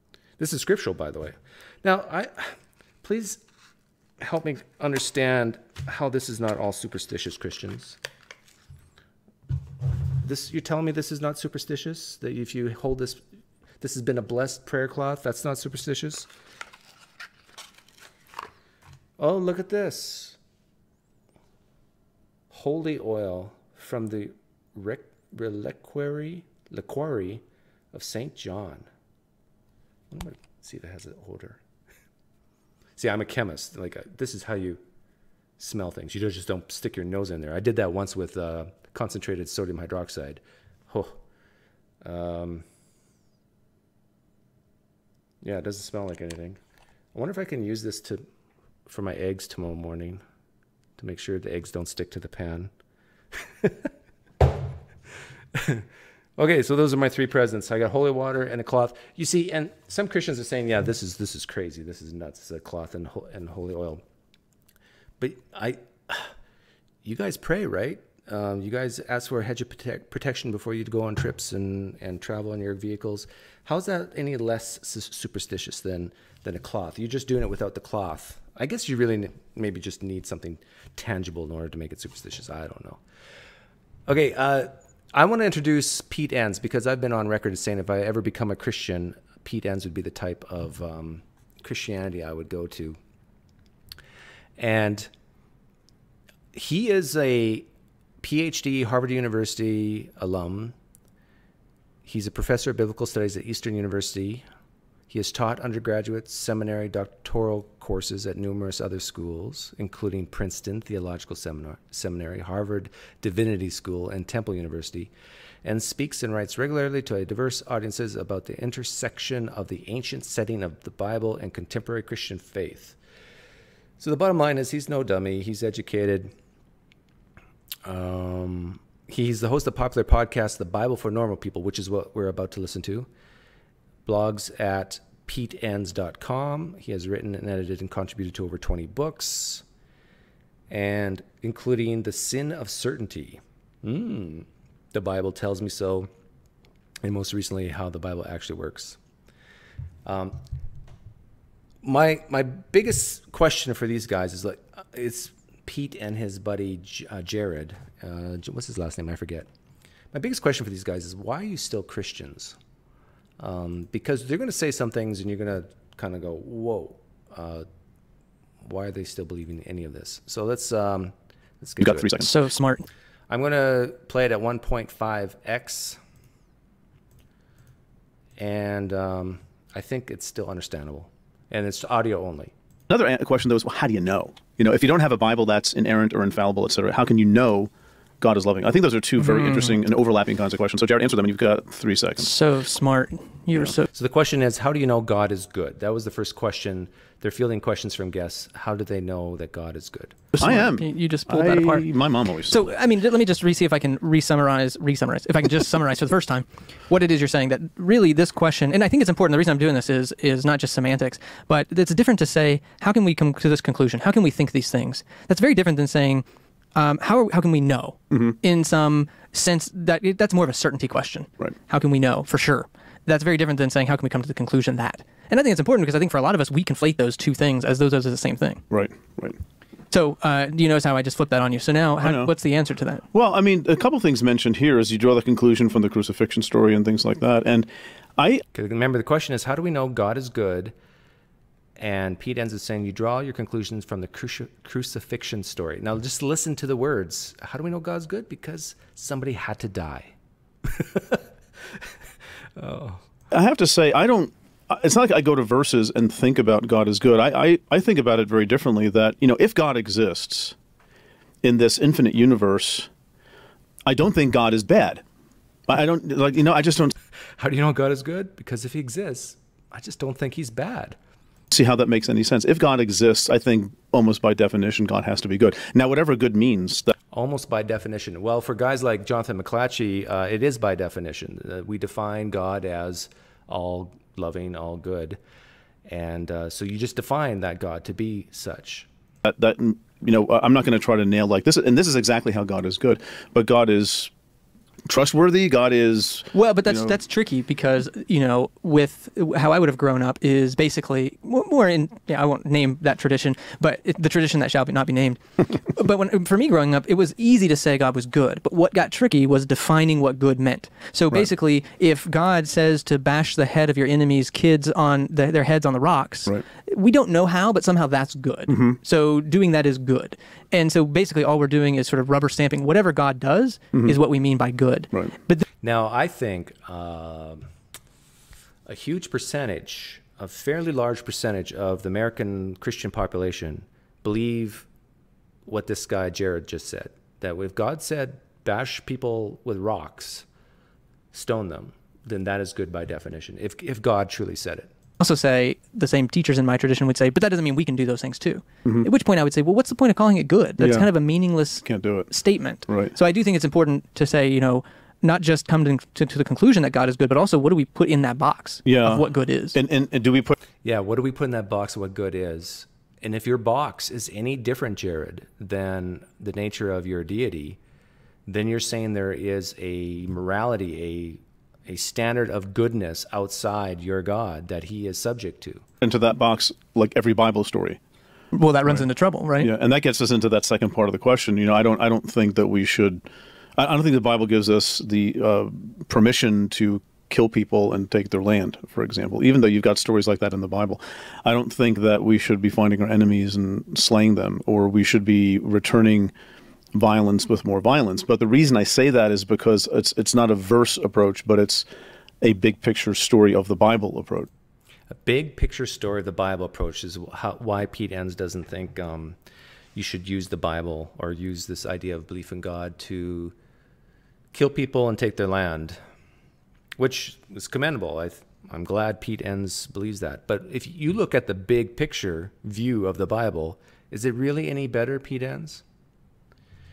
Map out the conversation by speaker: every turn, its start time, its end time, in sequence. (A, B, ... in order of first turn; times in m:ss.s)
0:00.4-0:03.4 A
0:04.2-0:08.0 A
0:10.2-0:13.2 A
0:13.8-0:16.3 A
0:19.2-0:20.4 A
0:22.5-0:28.9 A
0:30.1-0:31.6 A
0:33.0-0:34.8 A
0:35.6-0:41.2 A
0:42.0-0:42.6 A
0:45.4-0:46.6 A
0:47.1-0:48.2 A
0:48.8-0:50.2 A
0:51.0-0:52.7 A
0:53.3-0:53.9 A
0:55.5-1:04.0 A
1:05.2-1:06.3 A
1:07.0-1:23.0 A
1:24.1-1:33.0 A
1:34.6-1:35.1 A
1:36.5-1:37.7 A
1:38.2-1:40.7 A
1:42.0-1:44.4 A
1:45.1-1:55.1 A
1:55.6-2:03.0 A
2:04.0-2:06.3 A
2:07.8-2:13.1 A
2:14.0-2:19.6 A
2:20.7-2:26.1 A
2:27.0-2:29.0 A
2:30.0-2:30.4 A
2:31.8-2:39.5 A
2:40.1-2:42.6 A
2:43.4-2:47.6 A
2:48.6-2:52.1 A
2:51.8-2:52.3 B
2:52.2-2:52.9 C
2:53.3-2:56.0 A
2:58.4-3:02.5 A
3:02.9-3:07.7 B
3:08.2-3:12.3 B
3:09.3-3:09.7 C
3:12.2-3:13.9 C
3:13.9-3:20.2 A
3:20.3-3:22.6 B
3:20.4-3:21.9 C
3:22.5-3:36.2 C
3:36.8-3:48.6 C
3:38.1-3:38.4 B
3:48.7-3:49.4 B
3:49.9-3:53.0 C
3:52.0-3:52.3 B
3:53.1-3:58.4 B
3:58.5-4:00.7 A
4:01.8-4:11.2 A
4:12.6-4:13.0 A
4:13.3-4:20.5 B
4:21.4-4:22.9 B
4:23.8-4:25.0 B
4:25.7-4:26.9 B
4:27.4-4:31.0 A
4:31.5-4:36.9 B
4:37.1-4:45.2 A
4:45.8-4:48.9 A
4:49.2-4:54.1 B
4:54.9-4:56.9 B
4:56.3-5:25.4 C
5:18.5-5:18.8 B
5:25.6-5:27.5 A
5:28.6-5:34.7 A
5:35.4-5:40.2 A
5:41.1-5:44.7 A
5:45.0-5:59.6 C
5:50.6-5:50.9 B
5:51.6-5:52.1 B
5:52.7-5:52.9 B
5:58.6-6:00.4 B
6:00.6-6:07.6 A
6:08.2-6:15.6 A
6:15.8-6:17.8 B
6:18.3-6:19.5 C
6:19.4-6:23.0 B
6:23.6-6:36.1 B
6:36.7-6:41.6 B
6:42.2-6:44.3 B
6:44.9-6:49.2 A
6:49.7-6:53.3 A
6:54.3-6:55.8 A
6:56.8-7:05.6 A